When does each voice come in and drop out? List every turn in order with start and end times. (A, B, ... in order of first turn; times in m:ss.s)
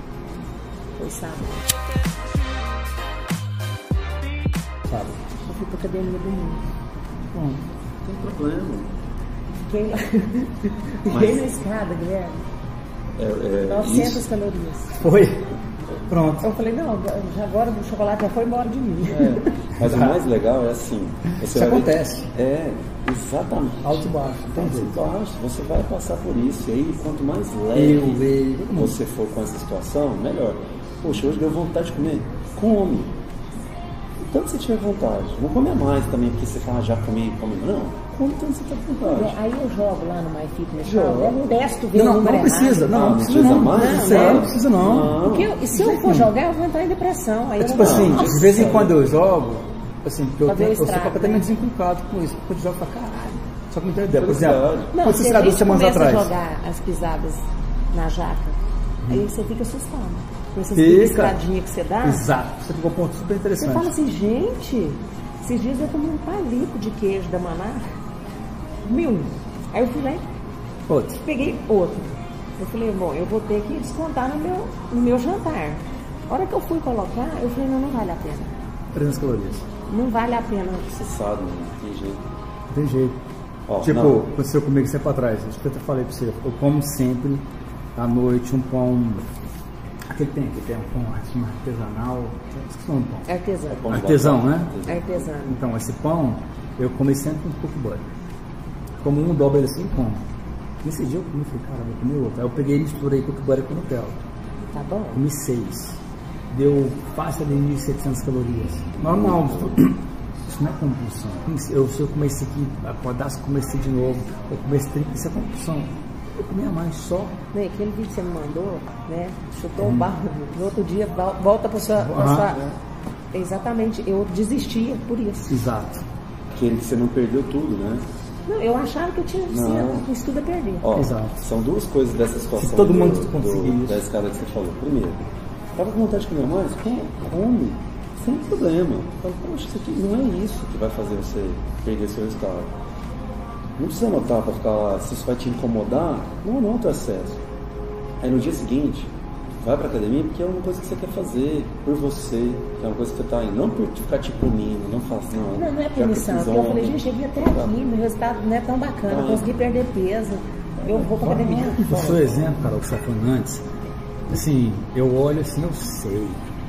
0:01.0-0:01.7 A
0:04.9-0:05.2 B
0:05.4-0:06.7 A
0:07.3-0:07.6 B
0:08.0-0:08.9 C
0:09.6-0:12.4 A
0:11.1-0:11.5 C
0:13.2-0:14.3 C
0:13.6-0:15.0 A
0:15.0-0:15.5 B
0:16.1-0:16.5 B
0:16.4-0:19.5 A
0:19.1-0:20.2 B
0:19.8-0:24.0 C
0:21.4-0:22.3 B
0:23.8-0:25.0 B
0:24.5-0:33.1 C
0:27.7-0:29.0 B
0:34.2-0:38.1 C
0:38.2-0:39.2 B
0:39.0-0:39.4 C
0:39.1-0:43.0 A
0:40.8-0:41.5 C
0:41.9-0:46.3 B
0:42.9-0:45.5 C
0:43.6-0:44.5 A
0:45.2-0:48.7 A
0:47.6-0:56.3 B
0:47.8-0:49.0 C
0:50.5-0:51.5 A
0:54.1-0:54.9 C
0:54.9-1:02.3 A
1:00.7-1:01.4 B
1:02.0-1:04.0 B
1:03.6-1:07.8 A
1:08.8-1:10.3 A
1:10.9-1:11.2 B
1:11.2-1:18.6 A
1:18.9-1:19.7 B
1:19.9-1:20.9 A
1:20.9-1:22.2 C
1:22.7-1:23.2 B
1:23.7-1:24.3 C
1:23.8-1:27.4 B
1:28.0-1:29.2 B
1:30.1-1:33.3 B
1:33.3-1:34.0 A
1:33.7-1:35.3 C
1:33.9-1:34.8 B
1:34.8-1:35.6 A
1:35.5-1:38.0 B
1:39.0-1:40.2 B
1:40.8-1:44.2 B
1:44.7-1:45.2 A
1:45.1-1:46.0 B
1:46.5-1:57.4 B
1:49.0-1:49.7 C
1:57.5-2:02.7 A
1:59.8-2:00.1 B
2:02.0-2:02.6 B
2:03.3-2:05.6 A
2:05.5-2:06.0 B
2:06.6-2:08.0 C
2:08.5-2:10.9 A
2:09.5-2:10.1 C
2:10.8-2:15.2 C
2:10.9-2:11.4 B
2:12.6-2:14.0 B
2:15.8-2:22.7 C
2:23.8-2:27.4 C
2:28.2-2:37.8 C
2:35.6-2:41.9 A
2:39.1-2:39.5 C
2:40.8-2:42.5 C
2:41.8-2:43.6 B
2:44.3-2:46.4 B